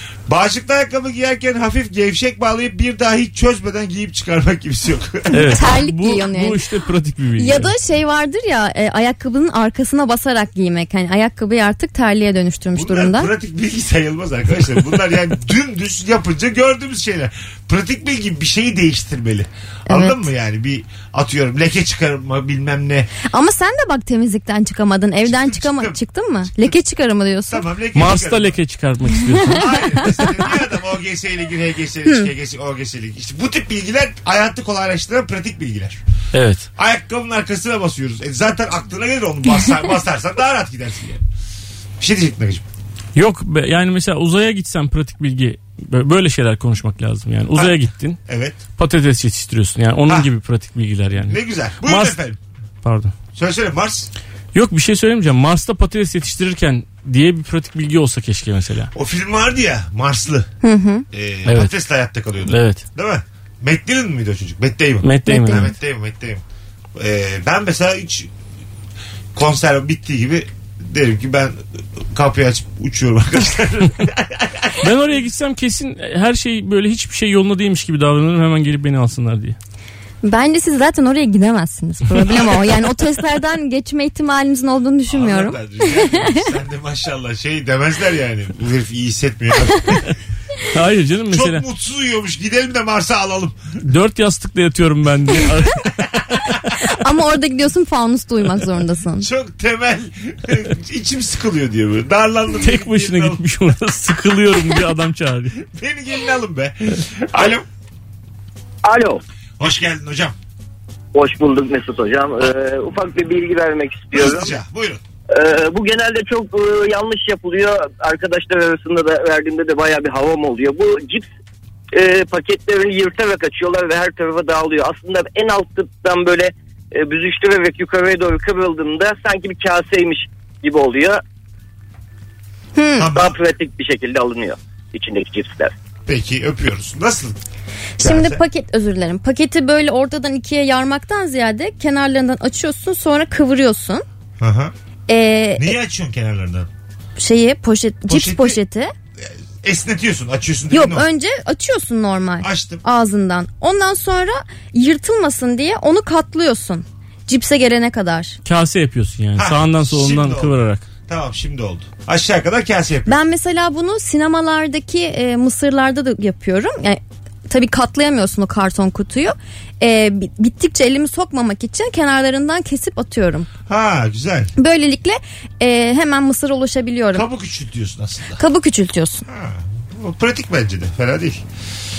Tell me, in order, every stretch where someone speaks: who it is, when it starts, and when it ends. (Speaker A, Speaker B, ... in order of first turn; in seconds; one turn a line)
Speaker A: 0.3-5.6
Speaker B: 5.3-7.7
Speaker C: 5.5-6.6
Speaker C: 7.4-13.3
Speaker A: 12.7-23.1
Speaker C: 19.9-20.2
Speaker C: 23.3-27.6
Speaker A: 25.2-26.7
Speaker A: 27.5-28.6
Speaker B: 27.9-29.7
Speaker A: 29.4-36.0
Speaker C: 30.0-30.4
Speaker B: 36.3-36.6
Speaker A: 36.8-41.2
Speaker A: 42.0-42.6
Speaker B: 43.1-48.2
Speaker A: 47.5-48.6
Speaker B: 48.8-52.2
Speaker A: 51.2-52.4
Speaker B: 52.8-53.1
Speaker A: 53.3-54.1
Speaker B: 54.5-58.9
Speaker A: 58.9-60.5
Speaker C: 60.6-61.0
Speaker A: 61.1-66.4
Speaker B: 61.5-61.7
Speaker B: 62.5-62.8
Speaker B: 65.0-65.7
Speaker C: 65.2-65.7
Speaker A: 67.0-68.3
Speaker A: 69.3-74.8
Speaker B: 74.8-79.6
Speaker C: 80.2-86.5
Speaker A: 82.3-82.7
Speaker A: 85.1-90.2
Speaker B: 90.7-91.6
Speaker A: 91.3-93.6
Speaker B: 93.8-95.8
Speaker C: 96.8-99.3
Speaker A: 99.2-103.4
Speaker B: 102.6-105.6
Speaker A: 105.6-107.6
Speaker D: 108.8-109.2
Speaker A: 109.6-110.3
Speaker D: 111.1-114.5
Speaker A: 114.1-115.0
Speaker D: 115.3-121.3
Speaker D: 121.9-131.2
Speaker C: 132.8-133.1
Speaker A: 133.0-133.4
Speaker D: 133.1-135.7
Speaker A: 136.1-137.4
Speaker C: 138.0-144.0
Speaker A: 138.0-138.4
Speaker A: 144.4-144.7
Speaker C: 145.1-145.7
Speaker A: 145.6-146.7
Speaker C: 147.2-148.9
Speaker A: 148.1-148.6
Speaker A: 149.2-151.1
Speaker C: 150.7-158.4
Speaker A: 152.4-152.8
Speaker B: 158.4-160.8
Speaker A: 159.3-163.2
Speaker C: 163.1-173.5
Speaker A: 173.7-174.5
Speaker C: 174.6-177.2
Speaker A: 177.1-178.4
Speaker C: 178.3-179.2
Speaker A: 179.2-181.4